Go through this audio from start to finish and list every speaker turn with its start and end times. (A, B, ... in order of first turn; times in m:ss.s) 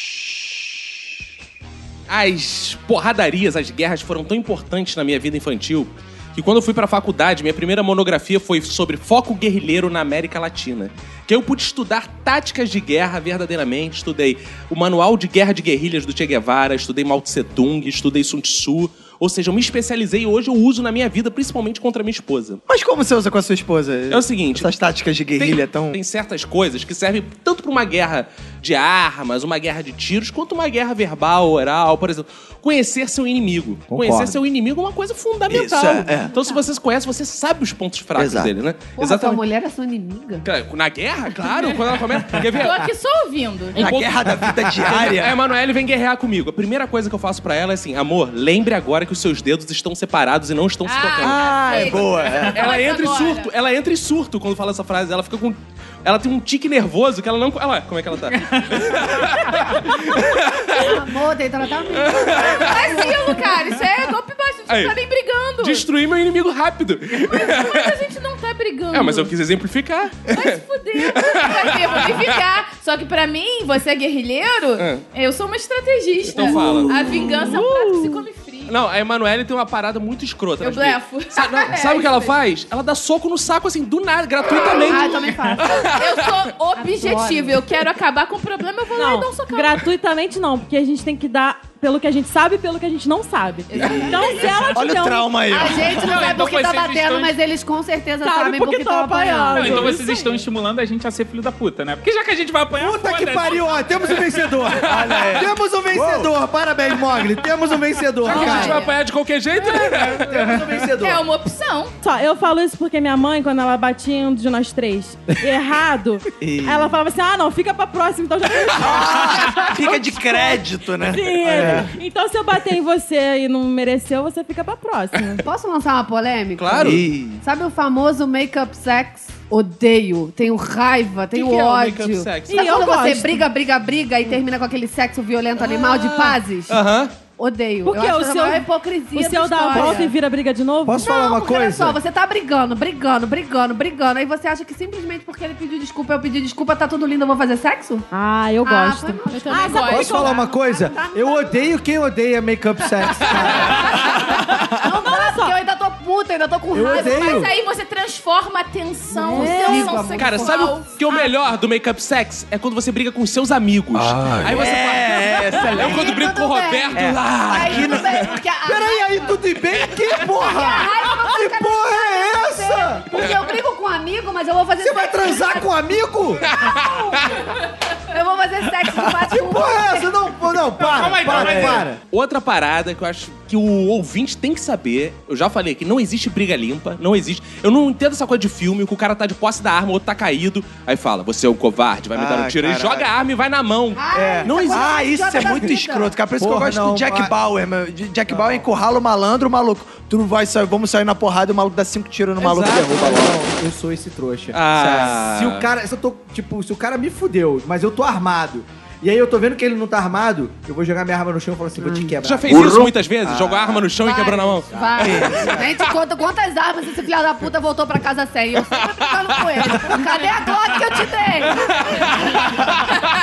0:02.1-0:22.6 A
0:22.7-0:26.0 B
0:24.1-0:24.7 A
0:25.4-0:39.4 A
0:33.9-0:34.4 C
0:35.5-0:36.3 B
0:38.2-0:38.5 B
0:39.0-0:40.4 D
0:40.4-0:42.9 A
0:42.6-0:43.9 E
0:43.7-0:52.0 A
0:43.8-0:45.4 B
0:50.8-0:53.5 E
0:51.2-0:52.6 B
0:52.5-1:01.0 A
0:58.4-0:58.9 F
1:00.8-1:03.5 D
1:01.9-1:03.2 A
1:02.4-1:05.9 E
1:04.7-1:05.0 A
1:05.6-1:08.0 A
1:07.2-1:09.3 E
1:08.9-1:12.4 A
1:10.3-1:18.8 E
1:14.8-1:15.0 A
1:16.3-1:17.6 A
1:18.7-1:26.3 A
1:20.6-1:22.4 E
1:24.6-1:25.9 D
1:24.8-1:25.3 E
1:25.8-1:29.8 E
1:26.8-1:27.7 D
1:28.9-1:35.5 G
1:33.7-1:34.5 E
1:33.7-1:36.2 B
1:35.5-1:40.0 D
1:36.0-1:37.4 F
1:38.2-1:40.4 G
1:39.5-1:44.3 F
1:42.8-1:48.8 C
1:44.8-1:46.3 B
1:44.9-1:45.3 A
1:48.2-1:50.3 A
1:48.3-1:48.8 G
1:48.4-1:48.8 D
1:50.1-1:51.2 C
1:50.9-1:51.9 E
1:52.0-2:05.4 G
1:56.4-1:57.0 B
1:58.7-2:01.9 B
2:01.5-2:01.8 C
2:05.4-2:16.8 D
2:06.6-2:07.1 A
2:06.8-2:07.4 B
2:11.3-2:12.8 A
2:12.5-2:13.5 G
2:15.6-2:16.4 G
2:16.7-2:17.1 A
2:17.4-2:20.2 D
2:17.8-2:21.1 G
2:19.7-2:20.1 C
2:20.8-2:22.0 C
2:21.0-2:28.0 D
2:28.1-2:30.4 G
2:28.6-2:31.8 D
2:29.3-2:30.4 E
2:29.9-2:34.7 C
2:33.3-2:37.5 D
2:34.3-2:35.6 G
2:36.7-2:37.5 C
2:36.8-2:41.3 E
2:39.1-2:40.7 D
2:39.2-2:40.1 G
2:40.1-2:48.1 A
2:44.4-2:46.2 B
2:45.6-2:49.4 D
2:47.0-2:48.3 B
2:48.6-2:53.2 C
2:50.4-2:55.7 D
2:54.8-2:56.4 C
2:56.4-2:57.4 A
2:56.5-2:57.6 D
2:58.1-3:00.1 D
2:59.3-3:02.0 C
3:00.8-3:01.8 F
3:01.0-3:14.8 A
3:01.3-3:01.9 B
3:12.1-3:13.1 B
3:14.0-3:16.2 D
3:14.1-3:23.4 B
3:16.4-3:17.3 C
3:18.3-3:18.6 C
3:22.4-3:32.8 C
3:22.4-3:22.9 A
3:24.5-3:25.7 A
3:31.8-3:32.1 D
3:32.2-3:35.9 A
3:33.3-3:33.7 B
3:34.0-3:42.5 D
3:34.7-3:35.6 C
3:35.0-3:35.6 B
3:38.6-3:40.0 A
3:41.4-3:43.1 A